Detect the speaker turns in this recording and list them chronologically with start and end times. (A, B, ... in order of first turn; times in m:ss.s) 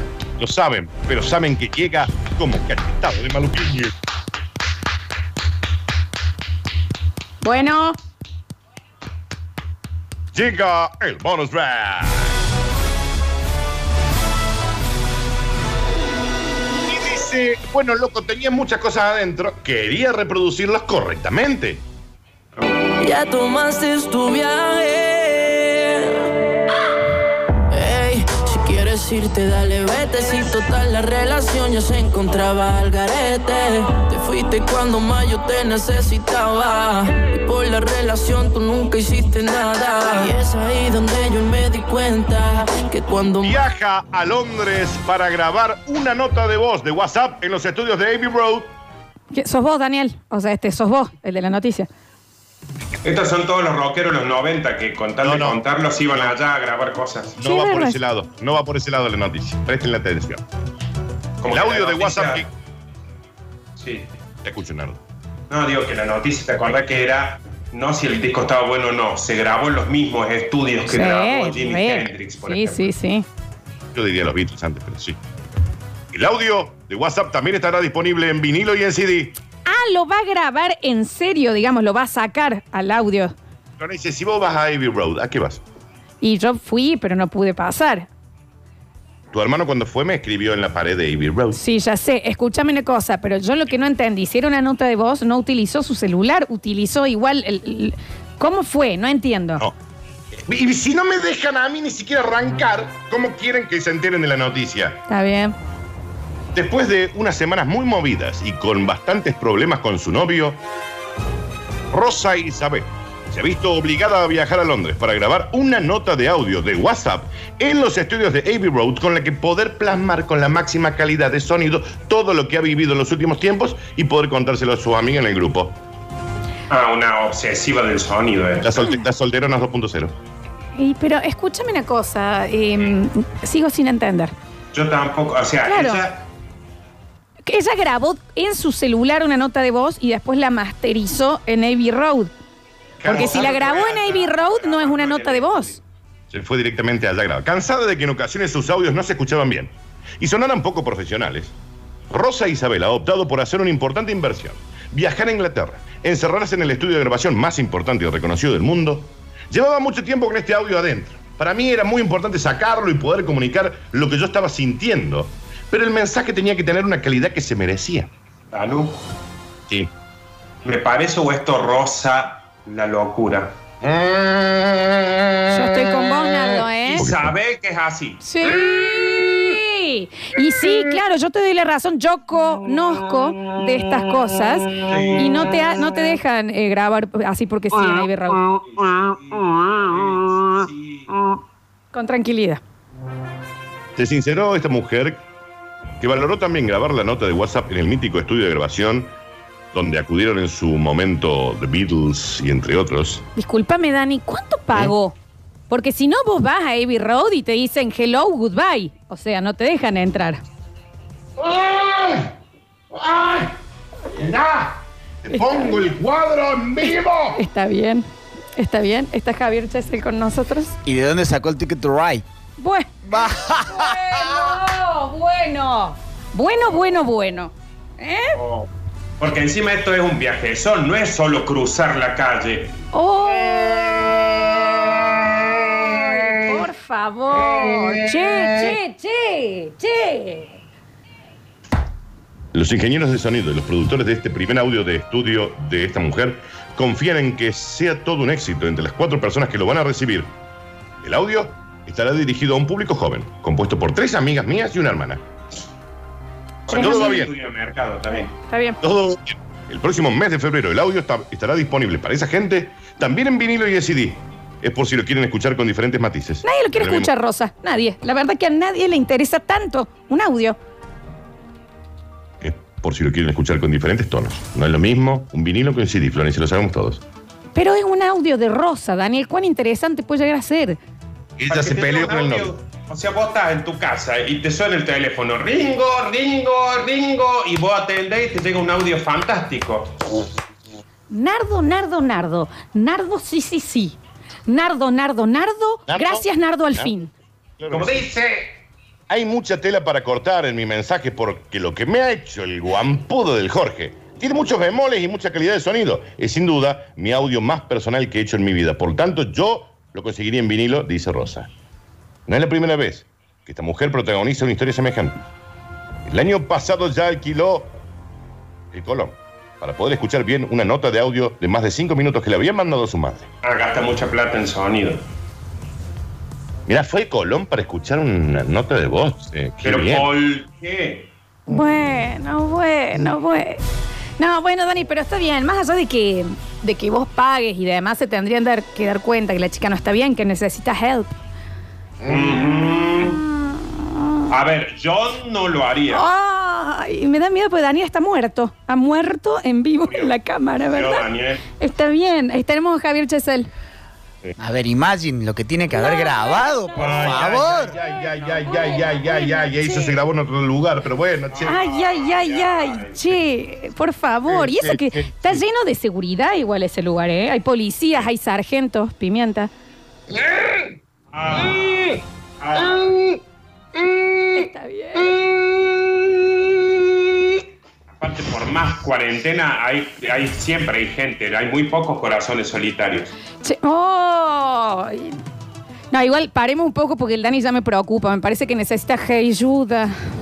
0:00.4-0:03.9 A
0:07.4-0:08.0 B
0:10.3-0:12.4 A
0:16.8-0:21.8 A
0:23.0-0:25.0 C
0:27.8-0:43.5 C
0:43.4-0:48.7 A
0:49.3-0:51.9 B
0:53.0-0:57.4 D
0:55.2-0:56.4 A
0:57.4-1:00.4 A
0:57.4-0:58.0 B
1:01.4-1:02.4 D
1:01.5-1:02.5 A
1:03.8-1:04.1 D
1:04.4-1:05.0 A
1:05.5-1:12.9 D
1:10.9-1:13.3 B
1:14.0-1:15.2 A
1:16.1-1:19.4 A
1:19.6-1:23.3 B
1:23.8-1:25.6 A
1:26.2-1:28.1 B
1:29.3-1:31.6 A
1:31.5-1:39.7 B
1:40.5-1:45.0 A
1:45.1-1:45.6 B
1:46.5-1:50.6 A
1:51.9-2:05.8 A
2:06.7-2:08.7 D
2:08.6-2:10.2 A
2:08.8-2:09.1 B
2:10.8-2:14.3 B
2:14.7-2:16.2 D
2:15.6-2:16.0 B
2:17.5-2:22.3 B
2:23.0-2:25.8 D
2:23.0-2:23.7 A
2:23.1-2:25.8 B
2:26.3-2:31.6 A
2:32.1-2:48.1 A
2:48.5-2:49.0 D
2:50.6-2:53.6 D
2:53.8-2:57.4 A
2:55.5-2:57.1 B
2:56.9-2:58.2 D
2:58.2-3:08.4 B
3:04.9-3:05.5 D
3:08.6-3:11.1 D
3:11.9-3:12.6 B
3:14.0-3:15.2 A
3:16.0-3:19.1 A
3:19.7-3:23.2 A
3:23.4-3:25.2 B
3:25.7-3:30.4 B
3:31.4-3:32.3 A
3:32.9-3:33.5 A
3:34.1-3:37.4 A
3:35.3-3:35.9 B
3:36.8-3:40.8 B
3:40.9-3:42.2 E
3:42.6-3:48.4 B
3:43.1-3:44.3 E
3:48.3-3:48.7 D
3:49.2-3:52.7 D
3:52.9-3:54.9 B
3:55.3-3:56.3 A
3:55.7-4:00.6 B
3:57.6-3:58.7 A
4:02.5-4:10.3 A
4:11.0-4:15.2 A
4:16.7-4:18.3 D
4:16.7-4:17.2 B
4:16.7-4:17.3 A
4:18.5-4:18.8 B
4:18.8-4:27.1 A
4:26.4-4:30.6 B
4:32.4-4:37.0 A
4:37.5-4:40.8 B
4:41.4-4:42.5 A
4:41.5-4:50.0 D
4:51.1-4:57.1 B
4:55.9-4:57.0 A
4:57.6-4:58.1 A
4:57.7-4:58.5 D
4:59.1-5:11.5 A
5:12.3-5:15.2 A
5:16.1-5:17.8 A
5:18.7-5:23.3 A
5:23.4-5:25.0 D
5:26.7-5:30.1 A
5:29.6-5:31.1 D
5:31.5-5:33.6 B
5:34.2-5:41.1 B
5:42.0-5:42.4 A
5:42.1-5:43.2 D
5:43.0-5:44.2 B
5:44.3-5:46.1 D
5:45.9-5:53.5 B
5:49.8-5:51.4 D
5:54.4-5:57.8 E
5:55.7-6:00.0 B
5:56.8-6:01.6 A
6:01.3-6:03.2 D
6:01.5-6:09.5 B
6:04.3-6:05.4 A
6:10.1-6:10.8 A
6:11.1-6:12.9 D
6:11.3-6:12.0 A
6:12.6-6:13.2 A
6:13.8-6:17.4 A
6:14.3-6:15.2 B
6:18.0-6:23.1 D
6:23.4-6:25.2 B
6:25.9-6:29.9 B